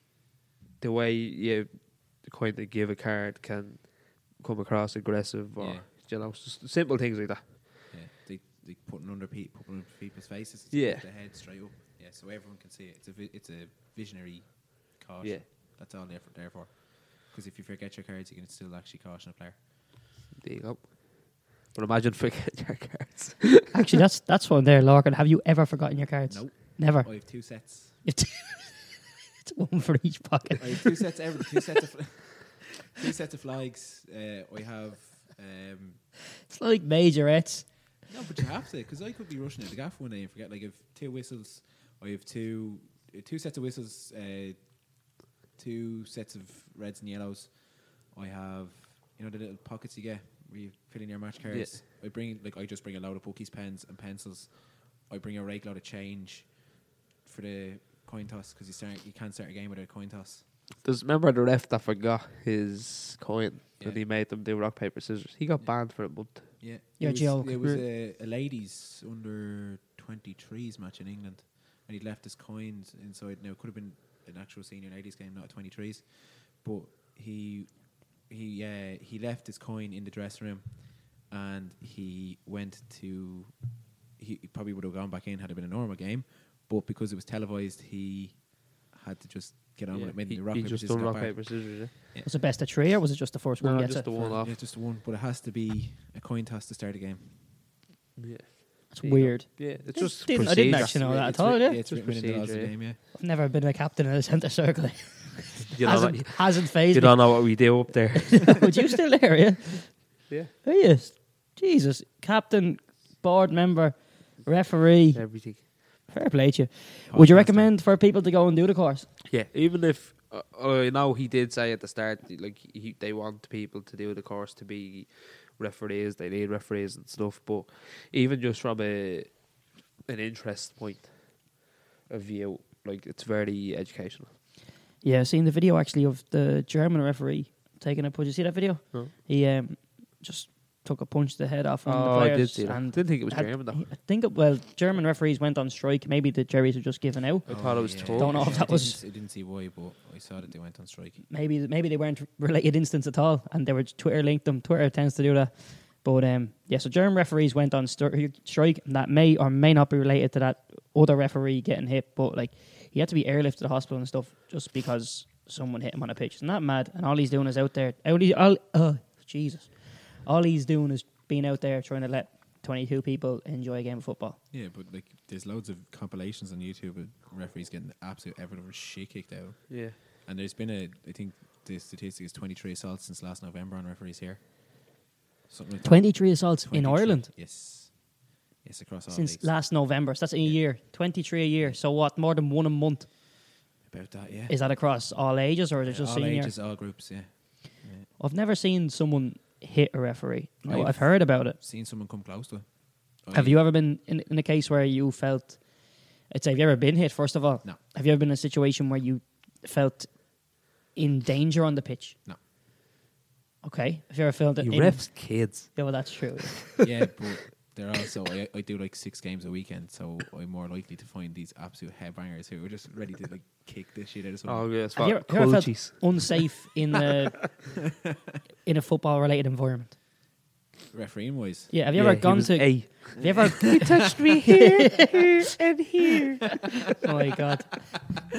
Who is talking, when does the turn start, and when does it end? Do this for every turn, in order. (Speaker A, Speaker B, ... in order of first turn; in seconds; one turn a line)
Speaker A: 0.8-7.6
Speaker B: 5.6-5.9
Speaker B: 7.9-19.6
Speaker A: 10.7-11.1
Speaker A: 15.2-15.5
Speaker A: 20.4-23.7
Speaker C: 23.7-31.3
Speaker B: 26.3-28.0
Speaker B: 30.6-36.0
Speaker C: 36.5-37.9
Speaker B: 38.1-60.4
Speaker A: 51.5-51.8
Speaker A: 60.8-66.7
Speaker B: 65.6-92.3
Speaker C: 67.0-67.6
Speaker A: 89.9-91.9
Speaker C: 92.2-94.1
Speaker A: 93.6-94.5
Speaker B: 94.2-97.7
Speaker A: 98.2-102.8
Speaker C: 98.9-101.8
Speaker B: 100.5-103.0
Speaker C: 103.1-119.1
Speaker A: 105.7-108.8
Speaker A: 115.1-115.7
Speaker B: 117.1-117.8
Speaker A: 119.3-134.3
Speaker C: 135.0-149.0
Speaker A: 141.8-143.9
Speaker A: 147.5-148.6
Speaker B: 147.5-151.2
Speaker C: 151.3-174.4
Speaker B: 174.5-189.7
Speaker A: 179.7-180.0
Speaker C: 185.8-187.3
Speaker C: 189.1-193.1
Speaker B: 190.4-190.7
Speaker B: 193.8-194.6
Speaker C: 194.5-196.6
Speaker B: 195.8-198.1
Speaker C: 198.2-201.6
Speaker B: 200.7-203.6
Speaker C: 203.3-212.2
Speaker C: 213.6-216.7
Speaker A: 214.6-215.8
Speaker B: 216.8-224.7
Speaker A: 224.4-226.3
Speaker C: 225.0-227.7
Speaker C: 228.7-230.0
Speaker B: 230.9-231.7
Speaker C: 231.7-235.4
Speaker A: 231.9-236.6
Speaker C: 237.0-238.0